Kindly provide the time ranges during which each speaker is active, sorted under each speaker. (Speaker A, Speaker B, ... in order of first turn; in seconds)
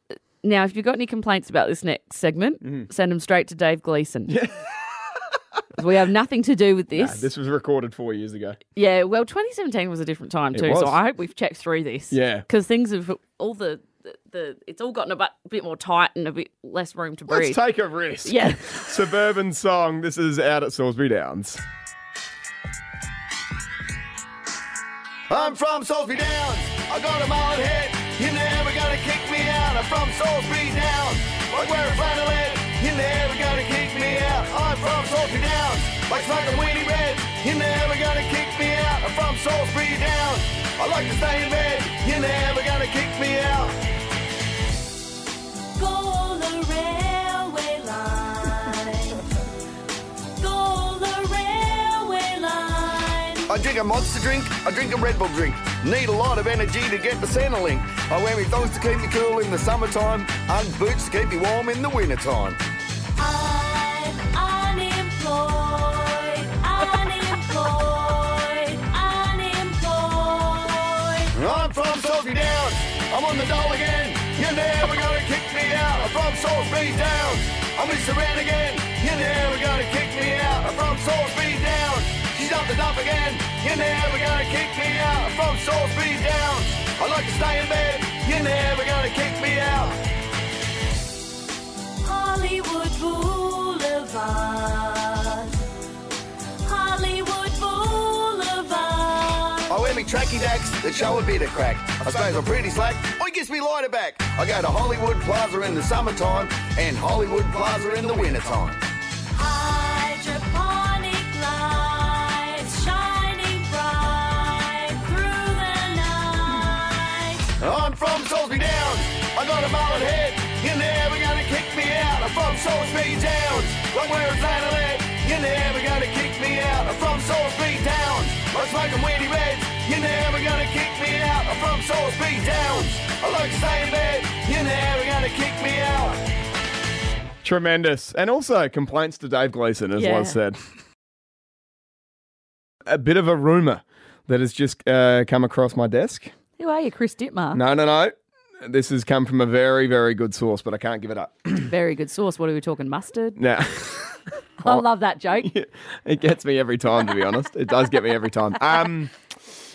Speaker A: 0.4-4.3, 5.8-7.3, 8.7-17.6, 18.2-18.9, 139.9-140.4, 146.6-147.6, 151.6-153.4, 154.6-155.5
Speaker B: 2.6-2.9, 4.3-4.5, 6.9-8.6, 10.5-11.0, 12.1-12.4, 17.3-21.6, 137.4-140.6, 142.9-146.3, 147.5-151.7, 153.4-154.8, 155.4-159.1
Speaker C: 25.3-43.8, 53.5-62.6, 71.3-90.0, 99.7-108.8, 117.6-136.2
Speaker D: 45.8-49.2, 50.4-53.5, 63.2-71.3, 92.0-95.5, 96.6-99.7, 109.3-117.5